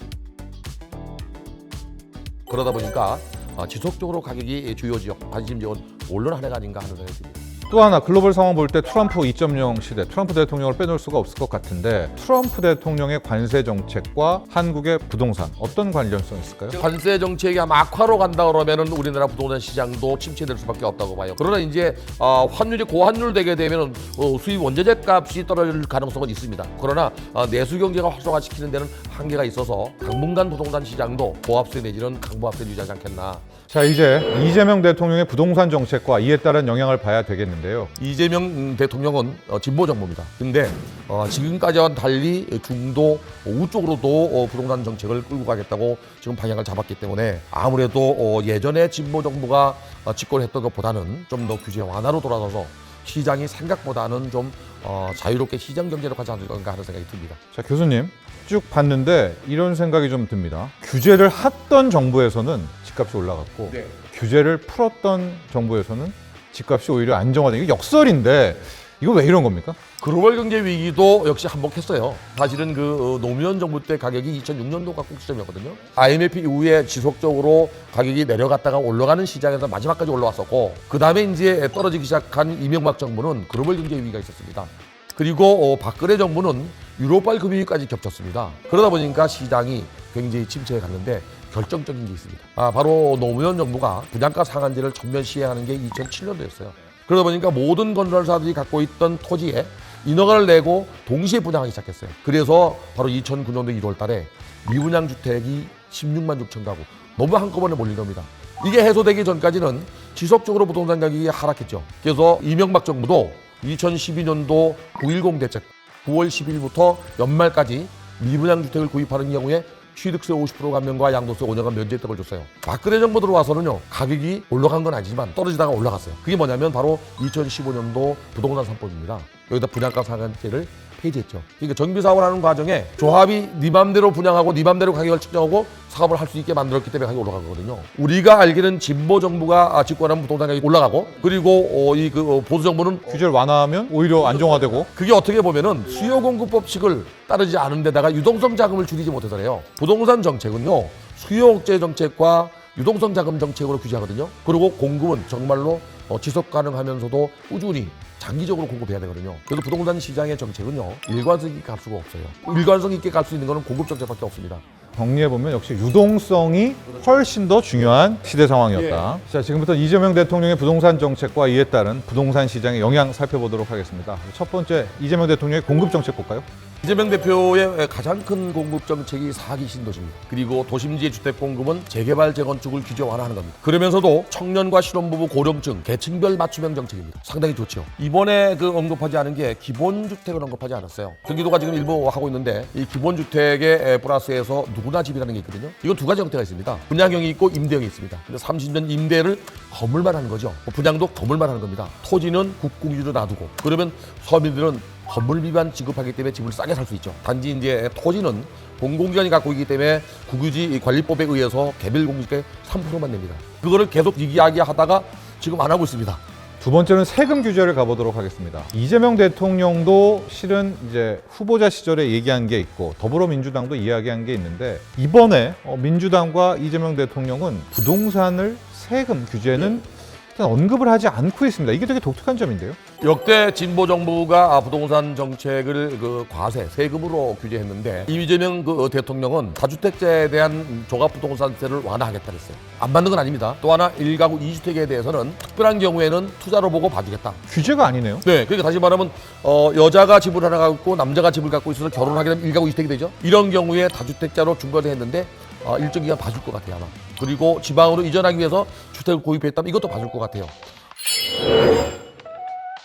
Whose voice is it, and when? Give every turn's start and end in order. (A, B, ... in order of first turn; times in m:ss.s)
0:02.5-0:07.4 A
0:07.7-0:16.8 B
0:16.7-0:33.4 A
0:33.7-0:37.9 B
0:38.0-0:57.4 A
0:57.5-1:09.8 B
1:10.0-2:23.2 A
2:23.1-2:24.9 B
2:24.9-2:44.6 A
2:45.0-2:56.4 B
2:56.8-3:36.2 A
3:36.6-3:52.8 B
3:53.0-4:07.4 A
4:07.5-4:08.2 B
4:08.2-4:20.5 A